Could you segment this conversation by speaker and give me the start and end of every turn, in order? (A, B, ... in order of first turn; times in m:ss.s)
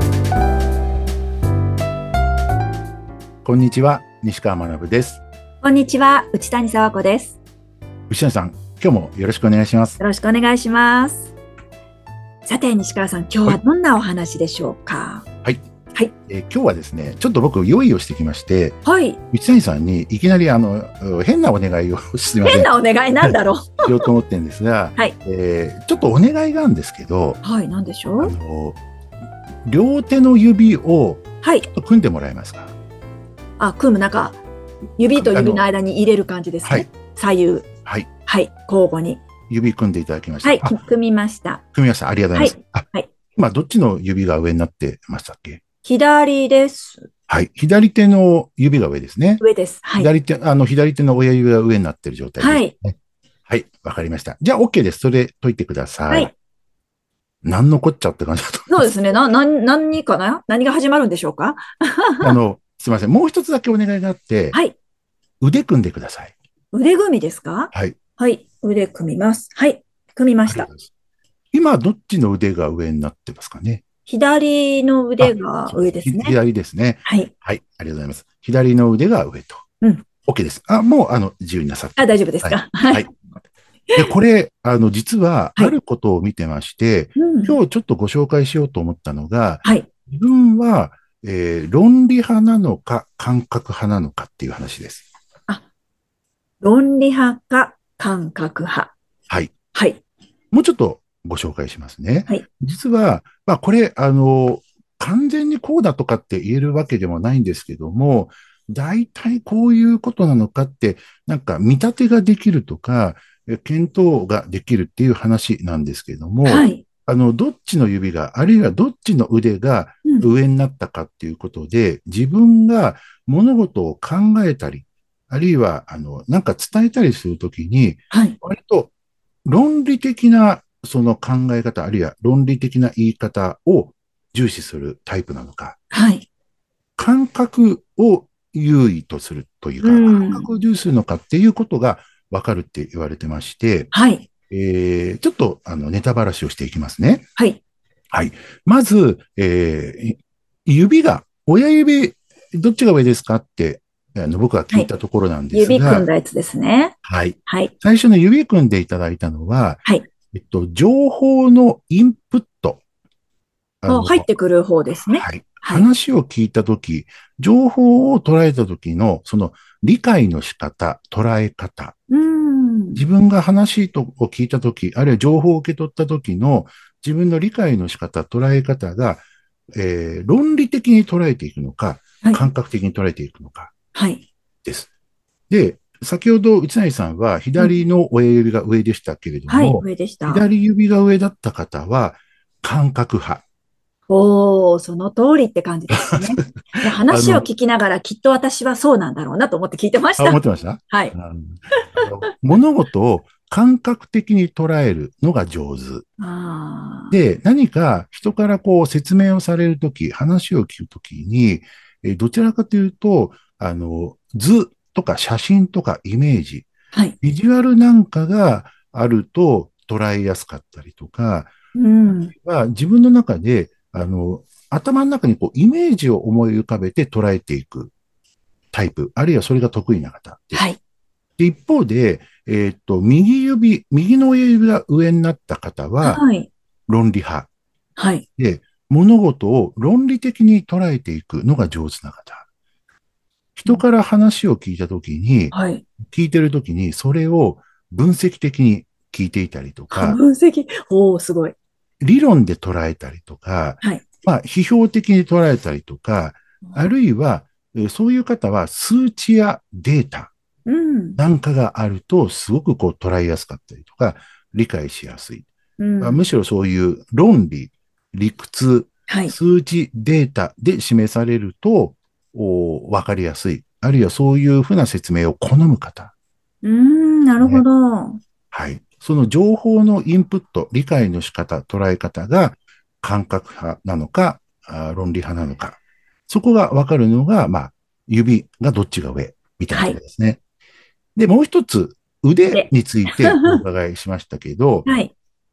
0:03.4-0:05.2 A
0:05.6-0:07.4 B
0:08.1-0:10.0 A
0:10.0-0:11.3 B
0:12.4-0:15.2 B
0:16.3-0:18.8 A
0:18.8-0:19.2 B
0:19.3-0:22.7 A
0:22.4-0:24.0 B
0:23.2-0:27.4 A
0:27.4-0:28.3 B
0:28.2-0:28.8 A
0:29.6-0:32.7 A
0:31.4-0:31.7 B
0:33.6-0:34.4 B
0:35.0-0:37.6 B
0:35.1-0:35.6 A
0:38.3-0:39.2 B
0:39.5-0:40.8 A
0:40.4-0:41.6 B
0:41.7-0:45.6 A
0:42.3-0:43.1 B
0:45.8-0:47.1 B
0:47.3-0:49.4 A
0:49.4-0:50.1 B
0:50.0-0:52.9 A
0:52.4-0:52.7 B
0:53.5-0:56.3 A
0:57.4-0:59.2 A
0:58.7-1:02.4 B
1:02.2-1:04.6 A
1:05.4-1:06.3 A
1:06.7-1:10.7 B
1:07.7-1:08.0 A
1:10.5-1:10.9 A
1:11.5-1:13.8 A
1:14.1-1:16.4 B
1:15.2-1:19.6 A
1:17.0-1:17.3 B
1:20.2-1:23.1 A
1:22.0-1:23.0 B
1:23.9-1:35.0 A
1:27.2-1:27.6 B
1:36.6-1:38.9 B
1:39.3-1:39.5 A
1:39.7-1:40.0 B
1:40.5-2:08.9 A
1:56.4-1:56.8 B
2:08.1-2:08.4 B
2:09.4-2:15.8 A
2:15.9-2:16.2 B
2:17.0-2:23.9 A
2:19.8-2:20.5 B
2:23.9-2:24.3 B
2:24.5-2:27.2 A
2:28.1-2:36.1 A
2:35.5-2:36.9 B
2:37.0-2:42.8 A
2:37.5-2:37.7 B
2:43.8-2:44.3 A
2:43.9-2:45.9 B
2:45.0-2:51.9 A
2:52.1-2:53.0 B
2:52.9-2:59.2 A
2:59.8-3:03.7 A
3:03.9-3:04.2 B
3:04.6-3:04.9 A
3:05.5-3:13.4 A
3:09.5-3:10.4 B
3:14.1-3:21.1 B
3:15.9-3:17.5 A
3:20.2-3:26.0 A
3:26.2-3:27.1 B
3:27.1-3:36.7 A
3:37.2-3:41.5 A
3:41.7-3:42.3 B
3:42.3-3:47.9 A
3:48.7-3:50.6 A
3:50.5-3:50.8 B
3:51.4-3:56.2 A
3:56.0-3:56.5 B
3:56.9-3:57.5 A
3:58.0-3:58.2 B
3:58.4-4:02.4 A
4:03.6-4:10.2 A
4:05.5-4:05.8 B
4:09.9-4:11.5 B
4:12.0-4:20.3 A
4:20.6-4:21.2 B
4:21.2-4:25.4 A
4:25.8-4:26.3 B
4:26.0-4:36.1 A
4:29.1-4:29.3 B
4:36.6-4:38.2 B
4:37.4-4:37.6 A
4:38.5-4:50.4 A
4:49.7-4:50.0 B
4:51.2-4:54.9 A
4:52.5-4:53.6 B
4:54.8-4:55.1 B